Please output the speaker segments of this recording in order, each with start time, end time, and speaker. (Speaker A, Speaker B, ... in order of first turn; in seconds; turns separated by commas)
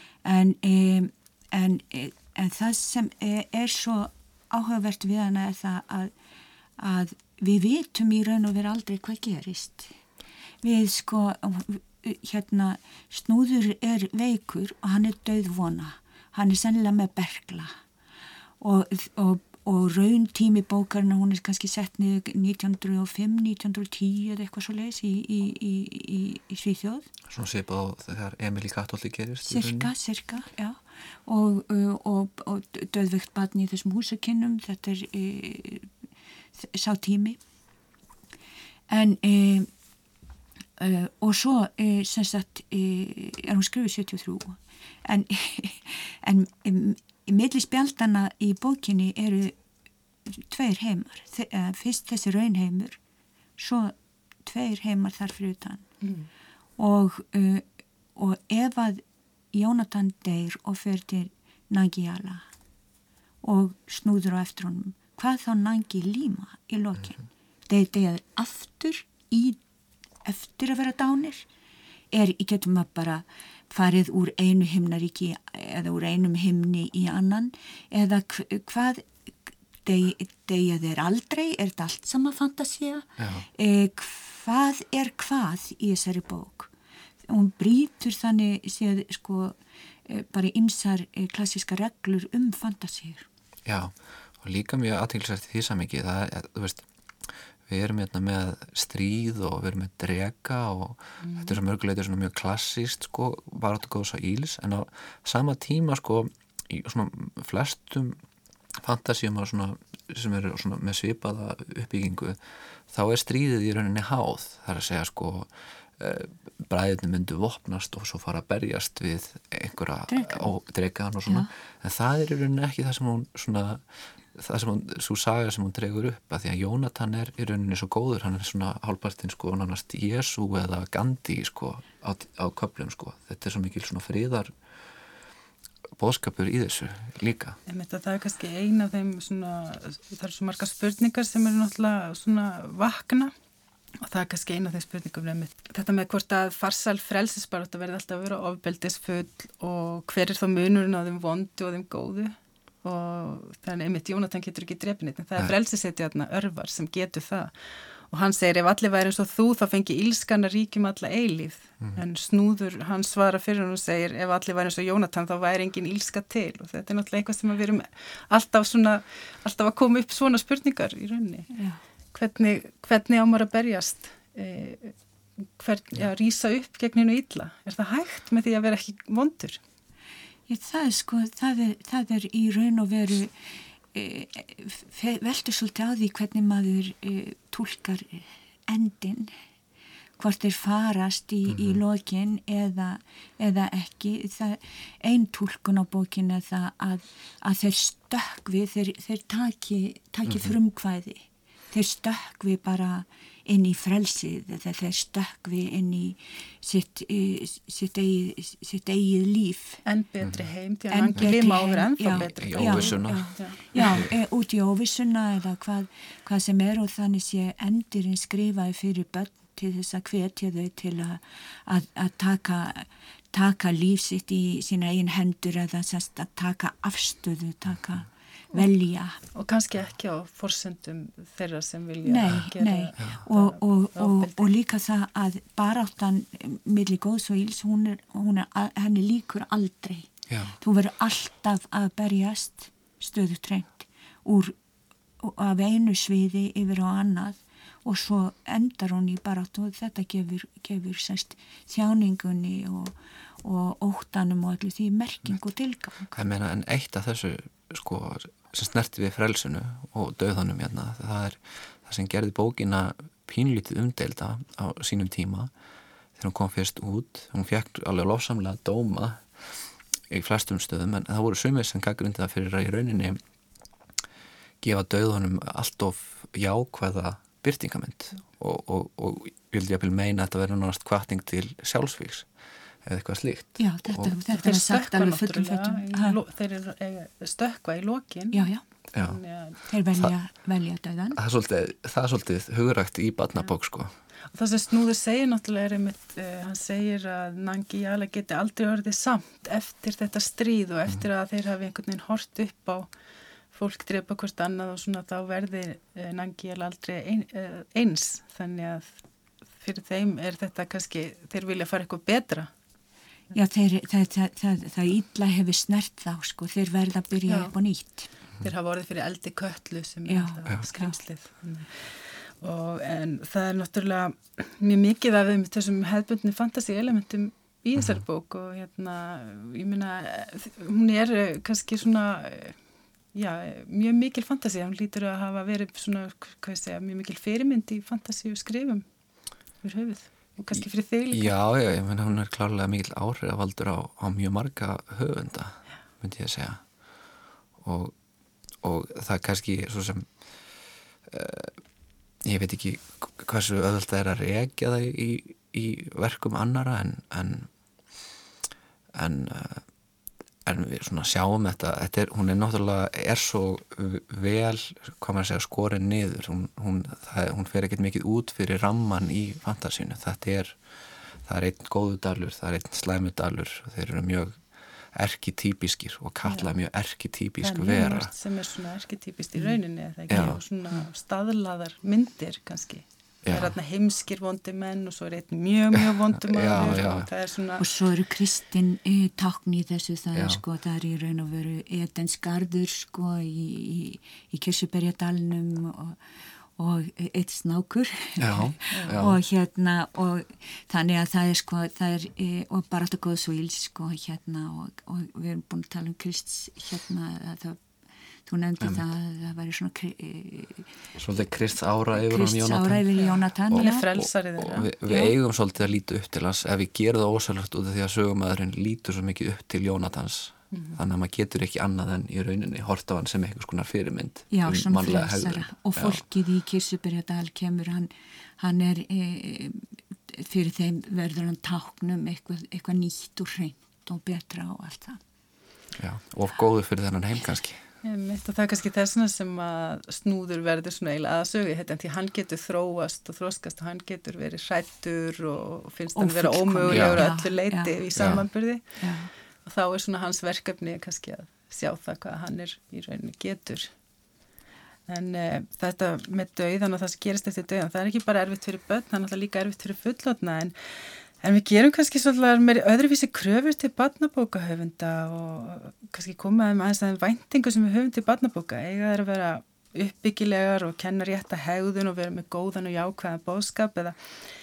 Speaker A: 0.2-6.1, Speaker A: 6.8-9.9, Speaker A: 10.6-17.7, Speaker A: 18.6-27.1, Speaker B: 27.3-29.9, Speaker A: 29.5-35.9, Speaker A: 36.5-37.4, Speaker A: 38.9-39.7, Speaker A: 40.8-49.5, Speaker A: 50.2-53.0, Speaker A: 53.6-55.9, Speaker C: 56.0-56.3, Speaker A: 56.8-62.4, Speaker A: 63.4-69.6, Speaker A: 70.2-71.5, Speaker A: 72.1-86.7, Speaker B: 83.2-83.5, Speaker A: 87.2-93.3, Speaker B: 93.7-96.8, Speaker B: 97.7-108.2, Speaker C: 101.2-101.6, Speaker B: 108.8-112.4, Speaker B: 112.9-134.5, Speaker A: 120.1-120.5, Speaker A: 121.2-121.5, Speaker B: 136.0-137.6, Speaker C: 137.7-143.3, Speaker C: 144.0-157.5, Speaker C: 158.1-171.5, Speaker A: 171.5-171.8, Speaker C: 172.1-174.9, Speaker C: 175.6-179.6, Speaker A: 180.5-189.3, Speaker A: 190.2-209.8, Speaker B: 191.5-191.8, Speaker B: 200.2-200.5, Speaker C: 209.8-214.0, Speaker A: 210.9-229.2, Speaker B: 212.1-214.1, Speaker C: 229.3-234.5, Speaker A: 232.0-244.6, Speaker B: 240.3-240.5, Speaker A: 245.2-256.2, Speaker B: 256.1-265.5, Speaker B: 266.2-273.2, Speaker B: 274.6-282.3, Speaker B: 282.8-284.1, Speaker A: 283.6-286.2, Speaker C: 284.3-288.5, Speaker A: 288.3-288.6, Speaker B: 288.9-289.2, Speaker C: 289.0-289.6, Speaker A: 289.7-291.2, Speaker B: 291.1-293.9, Speaker C: 294.3-302.9, Speaker C: 303.5-309.0, Speaker C: 309.6-312.5, Speaker A: 313.3-318.1, Speaker C: 317.3-317.5, Speaker C: 318.4-332.6, Speaker A: 320.1-320.9, Speaker C: 333.1-338.8, Speaker C: 339.6-341.3, Speaker B: 341.1-346.6, Speaker B: 347.6-347.9, Speaker B: 348.6-350.1, Speaker B: 351.1-351.6, Speaker B: 352.2-357.5, Speaker B: 358.9-359.6, Speaker B: 360.4-370.6, Speaker B: 371.2-374.4, Speaker B: 374.9-378.1, Speaker C: 377.4-387.6, Speaker B: 380.1-380.4, Speaker B: 383.2-383.5, Speaker B: 386.2-387.1, Speaker A: 387.6-396.0, Speaker B: 390.1-390.4, Speaker A: 396.6-407.6, Speaker B: 398.2-399.2, Speaker C: 398.7-399.0, Speaker A: 408.2-410.7, Speaker B: 411.0-412.9, Speaker A: 411.9-413.9, Speaker C: 412.9-414.7, Speaker B: 413.5-426.0, Speaker A: 414.9-415.1, Speaker C: 420.5-420.8, Speaker A: 424.3-435.0, Speaker B: 435.8-437.6, Speaker C: 437.8-448.6, Speaker A: 445.9-447.8, Speaker B: 446.7-447.1, Speaker B: 447.9-448.2, Speaker A: 448.8-449.1, Speaker C: 449.4-453.7, Speaker C: 454.9-474.0